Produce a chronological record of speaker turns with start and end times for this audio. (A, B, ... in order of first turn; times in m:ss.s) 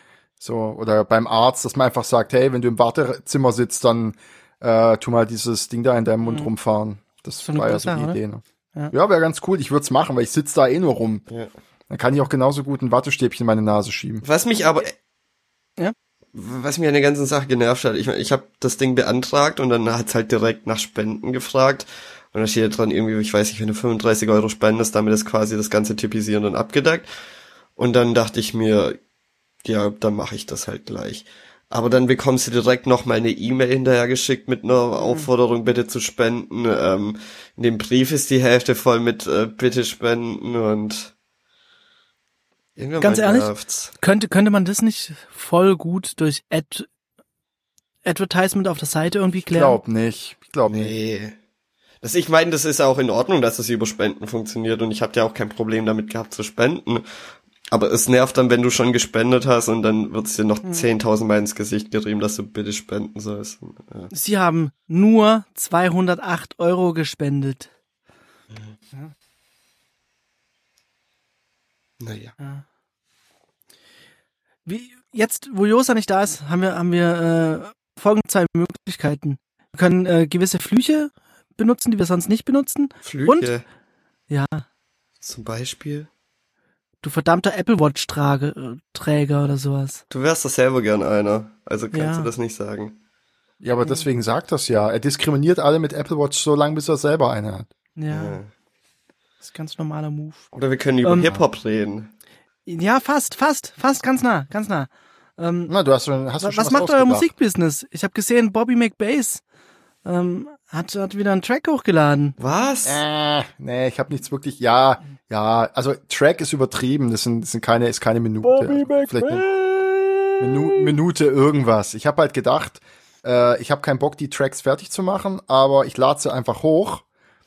0:00.4-0:11.2 A
0:06.2-0:06.5 B
0:07.4-0:08.2 B
0:11.9-0:14.2 A
0:14.2-0:15.0 C
0:16.3-0:27.1 C
0:27.8-0:29.0 C
0:29.6-0:41.1 C
0:35.0-0:35.3 B
0:42.8-0:43.9 C
0:43.0-0:46.9 B
0:48.0-0:49.8 B
0:49.5-0:50.9 A
0:50.7-0:51.4 C
0:52.0-0:57.0 C
0:57.7-1:04.1 C
1:00.6-1:00.9 B
1:04.1-1:07.7 B
1:12.0-1:12.3 C
1:14.6-1:23.5 B
1:23.0-1:23.6 C
1:24.3-1:24.6 B
1:25.2-1:26.1 C
1:27.0-1:30.0 B
1:30.1-1:33.0 C
1:31.9-1:32.3 B
1:33.6-1:37.7 A
1:38.0-1:38.4 B
1:38.1-1:38.5 C
1:39.4-1:40.5 B
1:40.5-1:42.1 C
1:41.0-1:41.3 B
1:42.6-1:45.7 B
1:45.7-1:47.3 A
1:46.4-1:49.4 B
1:50.0-1:52.4 B
1:52.4-1:53.0 C
1:52.8-1:59.4 A
1:58.5-1:59.4 B
1:59.5-1:59.9 C
2:00.4-2:07.0 A